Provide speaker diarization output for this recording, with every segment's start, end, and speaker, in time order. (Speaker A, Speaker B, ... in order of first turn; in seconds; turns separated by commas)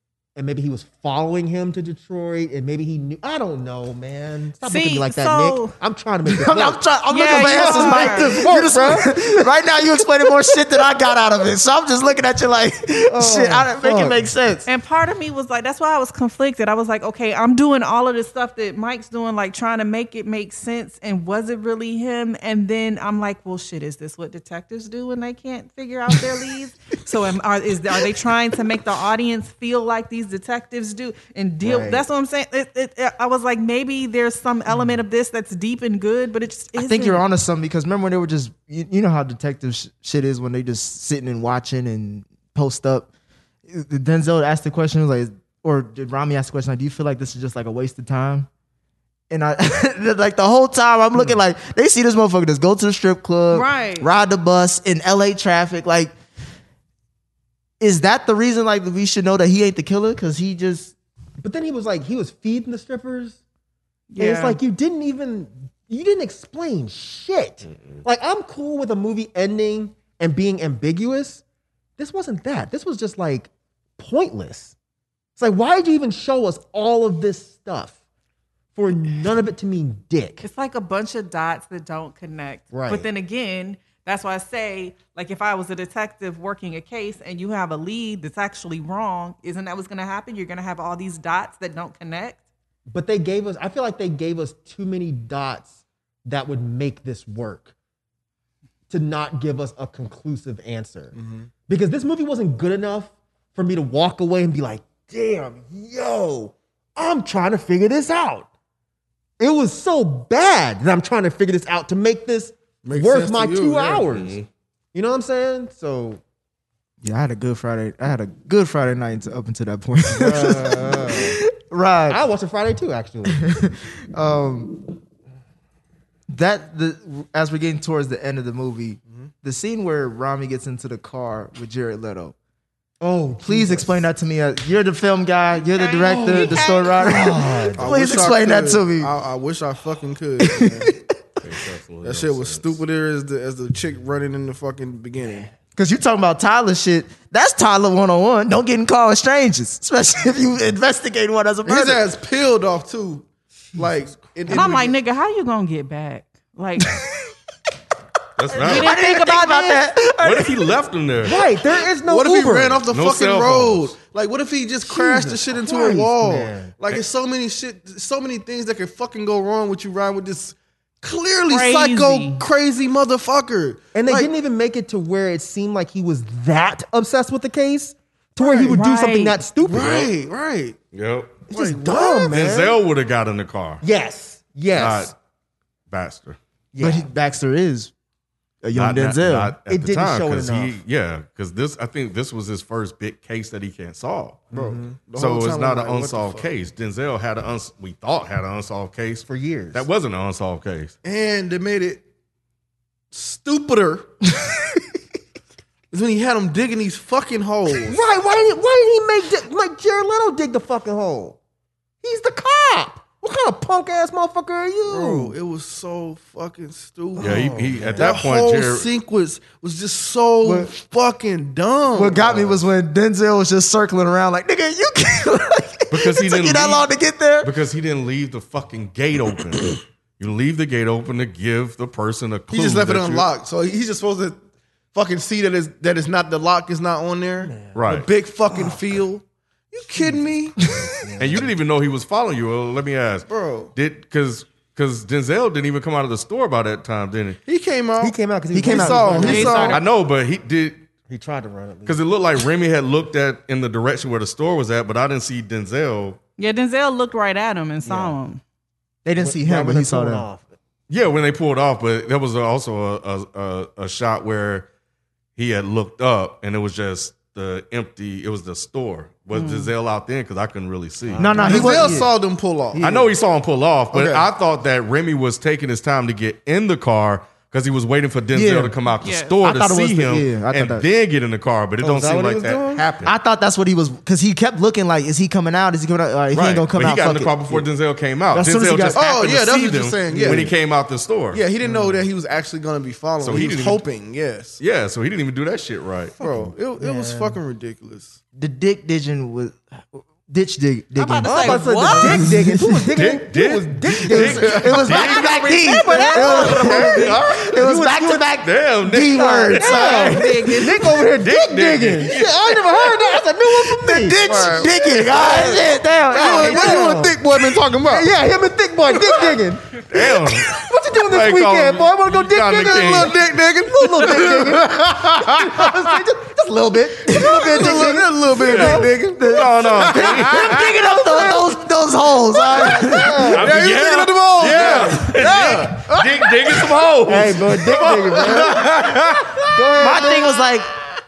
Speaker A: 0.4-9.5, Speaker B: 4.6-5.7, Speaker C: 6.3-14.7, Speaker B: 7.1-8.4, Speaker A: 13.1-14.3, Speaker B: 14.7-37.2, Speaker A: 31.6-32.1, Speaker C: 36.8-43.1, Speaker C: 43.7-48.5, Speaker C: 49.3-56.1, Speaker B: 53.5-54.1, Speaker C: 57.8-60.9, Speaker A: 61.4-63.4, Speaker B: 64.1-64.6, Speaker A: 64.2-71.4, Speaker A: 72.0-74.7, Speaker A: 75.4-77.9, Speaker A: 78.8-80.4, Speaker B: 80.4-92.4, Speaker A: 82.7-83.1, Speaker A: 92.9-95.7, Speaker A: 96.3-97.7, Speaker A: 98.9-101.1, Speaker D: 101.1-101.5, Speaker A: 101.7-108.5, Speaker A: 109.4-114.4, Speaker D: 112.8-114.1, Speaker E: 114.1-114.5, Speaker A: 114.9-116.2, Speaker C: 117.0-122.2, Speaker A: 120.1-121.4, Speaker A: 122.1-123.4, Speaker C: 123.3-124.8, Speaker C: 126.3-132.3, Speaker A: 133.0-134.1, Speaker C: 133.4-139.1, Speaker B: 135.7-137.5, Speaker A: 136.1-137.9, Speaker D: 137.8-140.9, Speaker C: 140.4-141.0, Speaker E: 141.4-142.8, Speaker D: 142.0-145.5, Speaker C: 145.8-152.0, Speaker D: 151.6-154.9, Speaker B: 154.5-157.0, Speaker C: 156.8-157.3, Speaker E: 158.4-159.0, Speaker B: 158.5-159.9, Speaker C: 158.5-160.7, Speaker E: 160.2-161.4, Speaker A: 161.2-162.8, Speaker D: 162.0-174.3, Speaker E: 162.9-163.9, Speaker A: 164.8-166.7, Speaker B: 171.5-172.4, Speaker A: 173.9-180.1, Speaker B: 178.4-179.4, Speaker D: 179.6-180.8, Speaker E: 180.9-181.4, Speaker A: 181.5-182.8, Speaker D: 181.5-182.3, Speaker E: 182.2-183.8, Speaker A: 183.8-185.1, Speaker E: 184.8-185.1, Speaker E: 185.9-186.4, Speaker A: 186.7-187.1, Speaker C: 186.8-187.9, Speaker C: 188.6-189.6, Speaker E: 188.7-194.5, Speaker A: 189.7-190.8, Speaker A: 194.5-194.9, Speaker D: 194.5-196.5, Speaker E: 195.2-200.9, Speaker A: 199.3-199.9, Speaker D: 201.0-202.0, Speaker D: 203.1-204.1, Speaker D: 205.9-208.0, Speaker A: 207.8-211.4, Speaker A: 212.0-215.4, Speaker D: 214.9-222.6, Speaker A: 217.2-218.2, Speaker E: 217.2-218.9, Speaker C: 220.4-220.7, Speaker C: 221.9-227.5, Speaker E: 225.9-226.9, Speaker E: 227.4-233.3, Speaker D: 232.5-234.4, Speaker D: 234.9-240.7, Speaker A: 237.4-237.8, Speaker E: 237.7-238.1, Speaker A: 240.0-241.5, Speaker E: 241.2-247.4, Speaker D: 243.3-243.7, Speaker D: 247.5-249.8, Speaker A: 248.0-249.8, Speaker C: 248.5-249.8, Speaker B: 249.2-249.8, Speaker E: 249.7-250.9, Speaker A: 251.1-252.0, Speaker E: 251.9-256.2, Speaker B: 256.4-258.4, Speaker A: 257.9-258.2, Speaker C: 259.1-260.3, Speaker A: 259.2-260.5, Speaker E: 260.9-264.7, Speaker E: 265.4-271.6, Speaker B: 269.3-269.7, Speaker A: 271.1-272.0, Speaker C: 271.2-272.1, Speaker D: 271.4-273.1, Speaker C: 272.8-273.0, Speaker E: 272.8-282.9, Speaker D: 273.9-274.3, Speaker C: 278.3-278.8, Speaker B: 279.0-279.4, Speaker C: 279.4-280.9, Speaker A: 281.8-283.1, Speaker C: 283.0-287.7, Speaker E: 286.3-291.4, Speaker C: 288.3-289.3, Speaker D: 288.9-290.5, Speaker C: 290.2-290.5, Speaker D: 291.3-294.6, Speaker A: 291.6-292.0, Speaker E: 293.2-293.8, Speaker E: 294.6-296.2, Speaker D: 296.2-298.2, Speaker A: 296.2-297.4, Speaker C: 298.4-303.0, Speaker B: 301.0-302.3, Speaker A: 301.2-304.9, Speaker E: 302.9-305.5, Speaker C: 304.1-310.6, Speaker D: 304.5-304.8, Speaker B: 304.9-307.2, Speaker A: 305.7-308.3, Speaker E: 308.4-310.0, Speaker A: 309.1-317.2, Speaker B: 309.6-311.1, Speaker E: 311.1-312.9, Speaker C: 313.8-317.0, Speaker D: 314.2-318.1, Speaker A: 317.9-319.7, Speaker E: 319.8-323.2, Speaker A: 320.3-328.9, Speaker D: 322.5-326.0, Speaker D: 327.1-331.2, Speaker C: 327.4-327.8, Speaker E: 328.4-330.6, Speaker C: 328.5-333.4, Speaker D: 332.4-340.1, Speaker A: 332.4-333.6, Speaker E: 333.3-338.4, Speaker A: 334.6-334.8, Speaker A: 337.1-340.4, Speaker C: 339.8-340.7